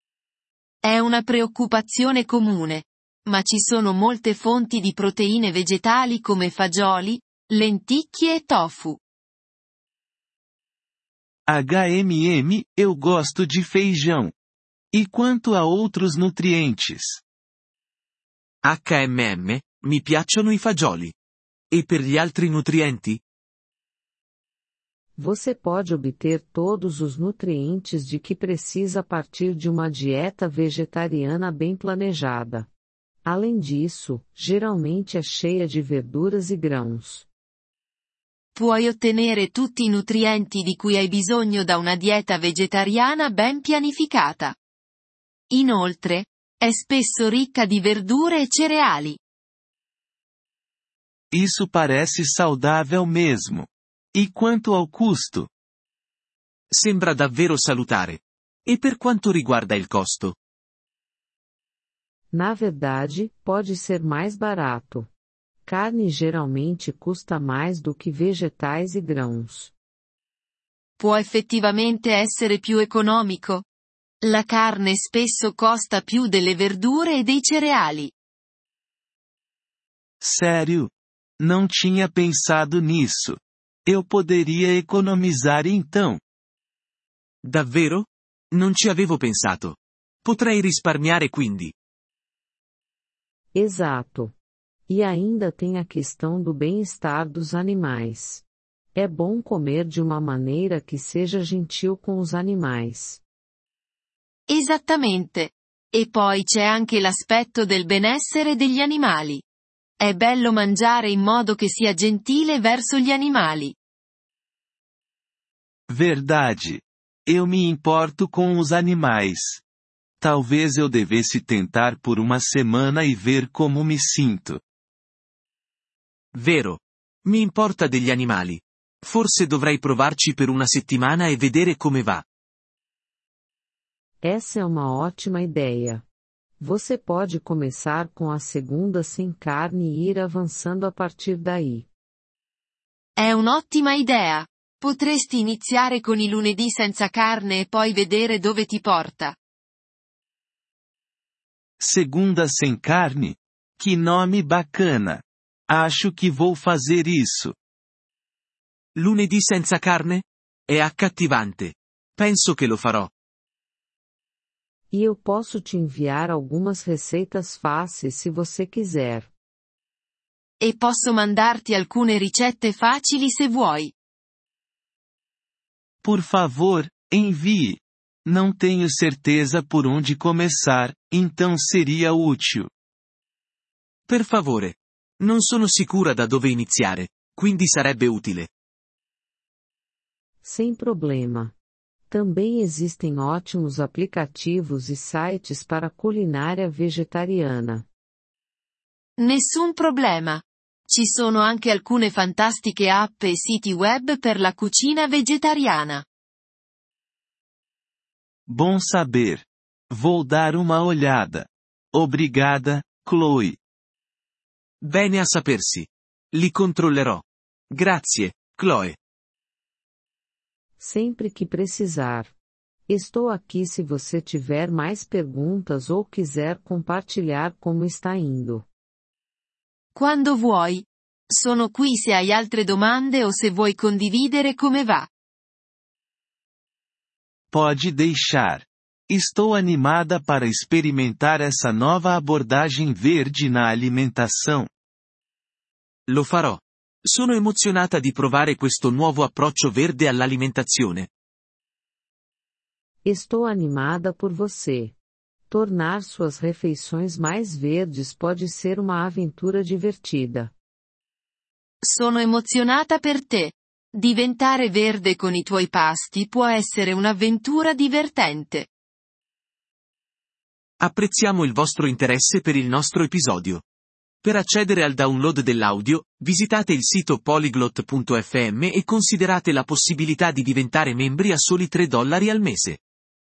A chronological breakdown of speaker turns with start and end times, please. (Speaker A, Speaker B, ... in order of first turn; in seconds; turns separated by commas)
Speaker A: 0.8-9.0, Speaker B: 11.4-14.3, Speaker B: 14.9-17.2, Speaker C: 18.6-21.1, Speaker C: 21.7-23.2, Speaker D: 25.2-32.7, Speaker D: 33.2-37.3, Speaker A: 38.5-44.5, Speaker A: 45.5-49.2, Speaker B: 51.3-55.5, Speaker C: 56.7-60.4, Speaker D: 62.3-65.1, Speaker D: 65.7-69.7, Speaker A: 71.0-73.6, Speaker A: 74.2-78.1, Speaker B: 80.2-86.2, Speaker C: 87.4-91.7, Speaker D: 93.5-94.3, Speaker D: 94.9-98.4, Speaker D: 99.0-103.2, Speaker A: 104.5-109.4, Speaker A: 110.0-113.8, Speaker B: 115.9-119.6, Speaker B: 120.2-124.6, Speaker C: 126.3-132.2, Speaker D: 134.2-136.0, Speaker D: 136.6-141.9, Speaker A: 143.2-149.4, Speaker B: 151.8-157.6, Speaker C: 158.9-163.1, Speaker D: 164.9-169.3, Speaker A: 170.6-173.9, Speaker B: 176.0-182.7, Speaker C: 184.1-188.5, Speaker D: 190.4-191.5, Speaker D: 192.1-197.8, Speaker A: 199.2-206.1, Speaker B: 208.5-213.6, Speaker C: 214.8-219.0, Speaker D: 220.8-222.3, Speaker D: 222.9-228.7, Speaker A: 229.9-235.1, Speaker B: 237.5-244.7, Speaker C: 246.1-251.1, Speaker D: 253.1-254.9, Speaker D: 255.5-260.5, Speaker A: 261.8-268.7, Speaker C: 270.8-273.6, Speaker C: 274.2-282.8